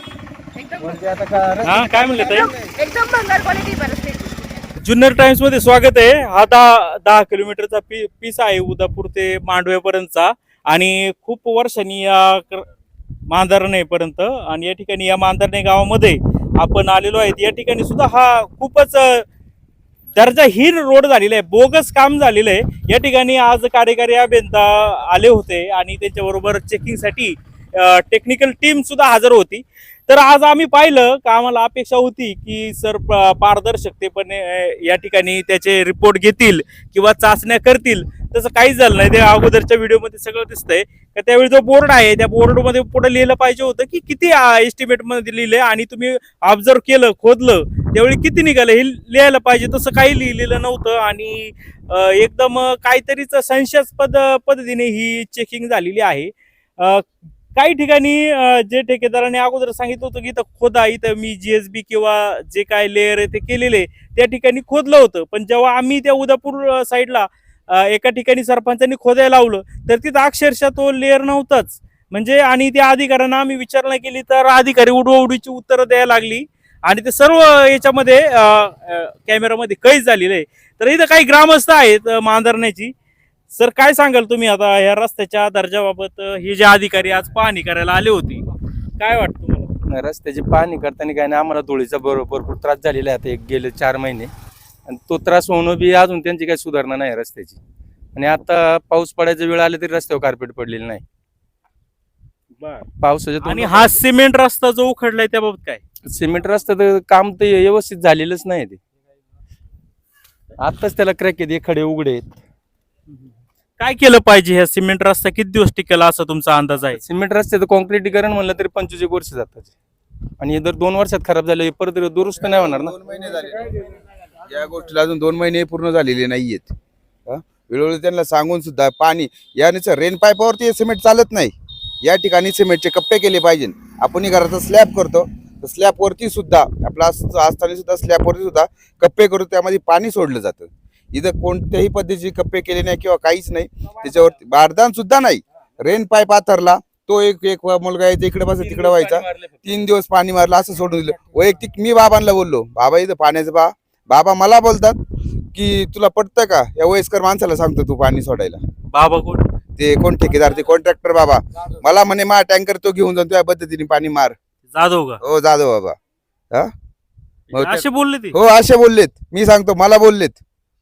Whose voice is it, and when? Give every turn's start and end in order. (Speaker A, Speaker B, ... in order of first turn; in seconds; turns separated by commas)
Speaker A: 0.6-1.1, Speaker B: 0.8-1.6, Speaker C: 1.6-2.5, Speaker A: 1.7-4.6, Speaker C: 4.8-12.7, Speaker C: 13.3-19.2, Speaker C: 20.1-82.9, Speaker C: 83.5-88.4, Speaker C: 89.0-89.7, Speaker B: 89.9-94.3, Speaker B: 94.9-97.6, Speaker B: 98.2-101.0, Speaker C: 102.6-102.9, Speaker B: 103.0-104.0, Speaker C: 103.4-105.8, Speaker B: 106.0-108.8, Speaker B: 110.6-112.4, Speaker C: 113.8-117.0, Speaker B: 116.9-119.7, Speaker B: 120.4-122.9, Speaker D: 122.5-123.7, Speaker D: 124.5-126.7, Speaker D: 127.3-155.0, Speaker B: 148.6-149.5, Speaker D: 155.5-158.6, Speaker C: 158.9-159.4, Speaker D: 159.8-164.3, Speaker C: 164.7-165.2, Speaker D: 165.2-166.0, Speaker C: 167.5-168.3, Speaker D: 167.5-170.4